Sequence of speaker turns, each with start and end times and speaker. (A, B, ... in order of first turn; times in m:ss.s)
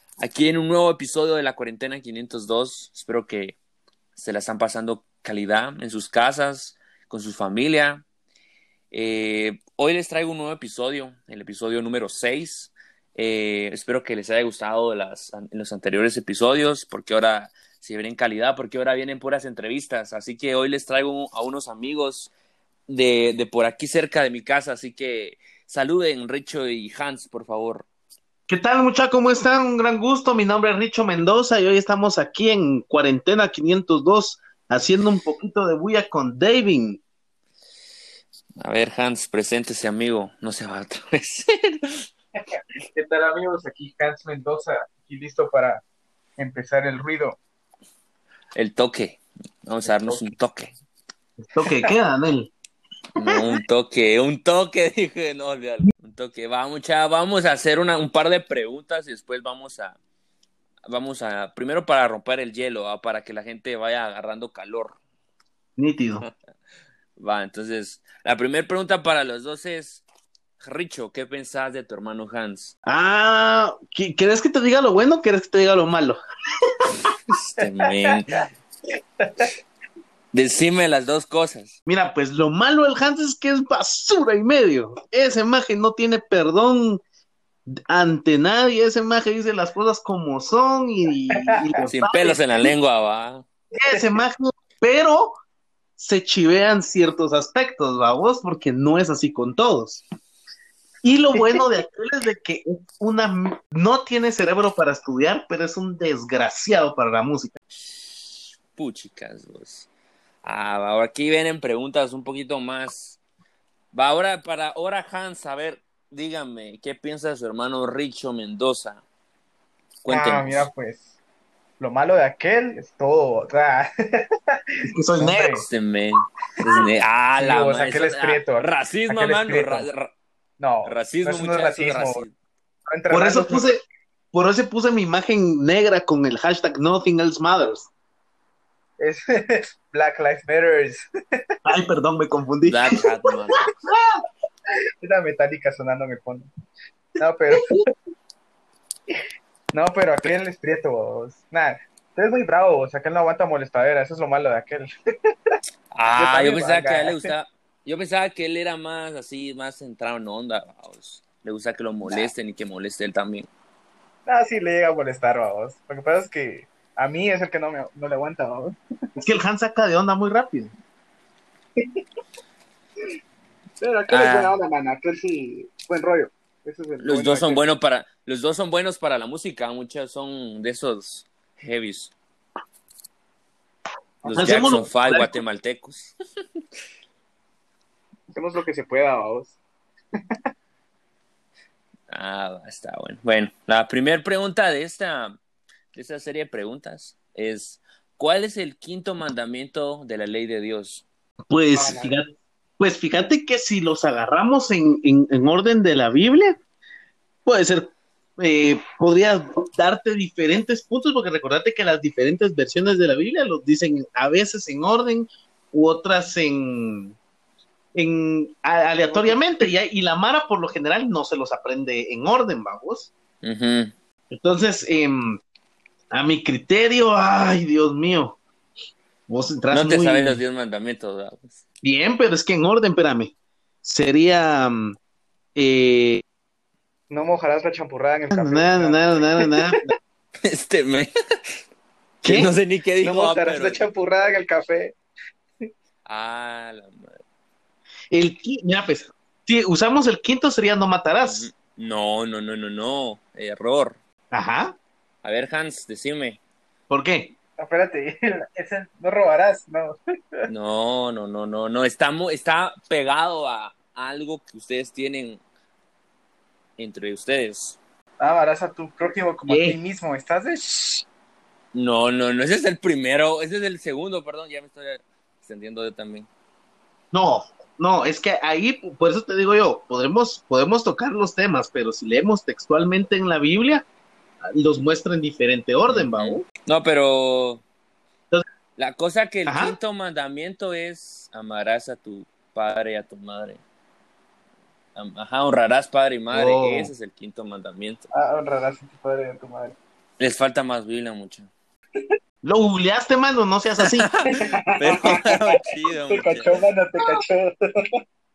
0:00.2-0:03.6 A
0:04.2-0:08.0 A
0:08.9-0:22.3 A
0:22.9-0:27.9 A
0:28.5-0:37.0 B
0:38.6-0:42.1 A
0:42.9-0:45.8 C
0:46.4-0:47.4 C
0:48.5-0:50.7 A
0:51.5-0:52.5 B
0:51.6-0:51.9 C
0:53.1-1:00.0 A
1:00.8-1:05.0 A
1:05.8-1:06.2 B
1:07.2-1:10.0 A
1:10.6-1:12.7 A
1:12.8-1:16.2 B
1:17.3-1:18.5 A
1:19.2-1:19.5 C
1:20.3-1:21.7 A
1:21.8-1:27.0 B
1:27.7-1:32.4 B
1:31.4-1:31.8 C
1:31.8-1:33.4 A
1:33.8-1:35.4 B
1:33.8-1:34.2 C
1:36.0-1:40.0 B
1:41.0-1:47.5 B
1:41.4-1:41.7 C
1:48.7-1:49.9 A
1:50.4-1:53.2 A
1:53.9-1:59.0 A
2:00.0-2:00.7 A
2:00.1-2:01.1 C
2:01.8-2:05.6 C
2:04.8-2:05.6 B
2:05.5-2:10.1 A
2:07.4-2:09.9 C
2:10.6-2:12.2 C
2:10.8-2:12.3 A
2:12.9-2:13.7 C
2:13.1-2:17.9 B
2:19.0-2:21.4 C
2:21.6-2:23.0 B
2:22.6-2:23.6 A
2:25.0-2:26.5 C
2:27.2-2:27.7 C
2:27.5-2:27.8 B
2:29.7-2:34.9 C
2:35.9-2:43.5 A
2:36.2-2:37.3 C
2:44.2-2:48.8 C
2:49.2-2:50.7 B
2:53.8-2:57.6 C
2:54.1-2:54.5 A
2:57.0-3:02.1 A
3:04.2-3:04.8 C
3:04.3-3:05.3 B
3:04.3-3:06.1 A
3:08.3-3:09.6 C
3:12.1-3:15.4 A
3:15.9-3:21.0 A
3:21.5-3:22.2 B
3:21.7-3:22.2 C
3:22.8-3:26.6 B
3:27.4-3:37.2 B
3:37.9-3:43.1 B
3:39.1-3:39.3 C
3:43.4-3:43.9 A
3:44.3-3:45.4 B
3:46.1-3:48.4 B
3:49.3-3:50.4 B
3:49.7-3:51.6 A
3:51.8-3:55.0 B
3:55.5-3:56.2 B
3:57.1-3:59.6 C
3:58.3-3:59.9 B
4:00.4-4:01.1 A
4:02.2-4:02.5 B
4:02.2-4:03.9 A
4:03.0-4:04.9 C
4:06.0-4:07.2 A
4:08.1-4:11.5 B
4:11.2-4:14.0 A
4:14.3-4:14.8 B
4:15.2-4:16.4 A
4:16.9-4:17.3 B
4:17.6-4:20.5 C
4:20.5-4:25.4 A
4:26.8-4:27.8 A
4:28.2-4:31.0 C
4:29.5-4:29.8 B
4:31.7-4:36.3 A
4:37.1-4:43.8 B
4:44.4-4:46.4 B
4:45.9-4:47.6 A
4:48.8-4:53.6 A
4:49.4-4:49.7 B
4:54.9-4:58.1 A
4:56.3-4:56.9 B
4:58.1-4:59.8 C
5:00.2-5:01.5 A
5:02.4-5:04.1 B
5:03.8-5:06.6 A
5:04.2-5:05.4 C
5:06.1-5:07.8 C